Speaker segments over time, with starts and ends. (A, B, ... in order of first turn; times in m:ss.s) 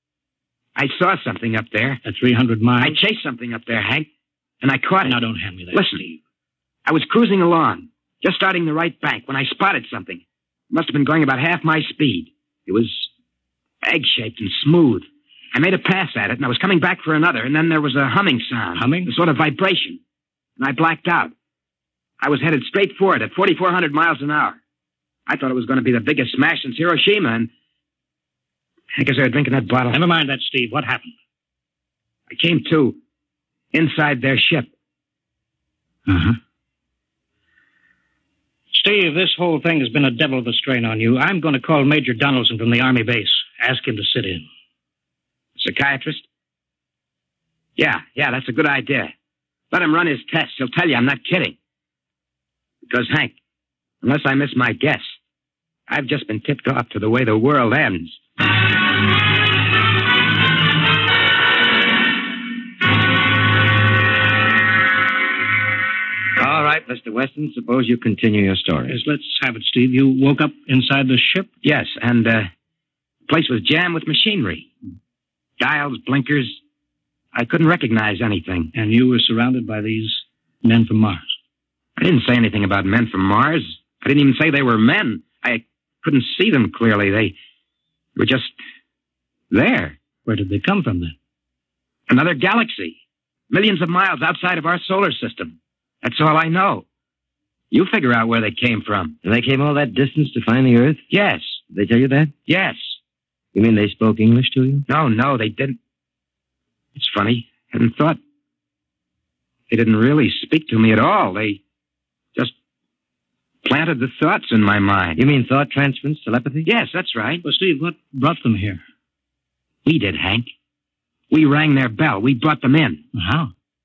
0:00.8-0:02.0 A
0:02.0-0:03.0 B
0:02.8-0:04.1 A
0:04.6-0:05.2 A
0:05.0-0:06.2 B
0:05.7-0:06.0 A
0:06.8-0:13.1 A
0:13.8-0:20.0 A
0:18.8-0:19.1 B
0:20.6-0:21.3 A
0:22.2-0:24.6 A
0:25.3-0:27.5 A
0:28.9-0:30.0 A
0:29.9-0:31.1 B
0:32.3-0:33.0 A
0:33.7-0:34.7 A
0:36.1-0:36.4 B
0:38.7-0:44.4 B
0:45.6-0:46.2 A
0:47.8-0:49.1 A
0:49.7-0:51.6 A
0:52.9-0:53.3 A
0:54.0-0:55.1 A
0:55.9-0:58.2 A
1:06.4-1:09.0 C
1:08.9-1:11.5 B
1:11.6-1:12.5 A
1:13.3-1:14.7 A
1:15.6-1:16.6 A
1:17.3-1:18.7 A
1:18.7-1:21.3 B
1:22.0-1:27.3 A
1:28.2-1:28.5 A
1:29.5-1:30.0 A
1:30.2-1:31.1 B
1:32.1-1:33.0 A
1:33.5-1:36.8 A
1:37.7-1:39.2 A
1:39.2-1:41.0 C
1:41.1-1:41.6 A
1:41.7-1:42.3 C
1:42.5-1:43.0 A
1:43.5-1:44.8 C
1:44.9-1:45.8 A
1:47.0-1:48.2 A
1:49.7-1:51.6 A
1:53.6-1:55.2 A
1:55.2-1:56.7 C
1:56.6-1:57.4 A
1:57.4-1:58.8 B
1:59.8-2:00.5 A
2:01.3-2:03.0 A
2:03.1-2:03.5 B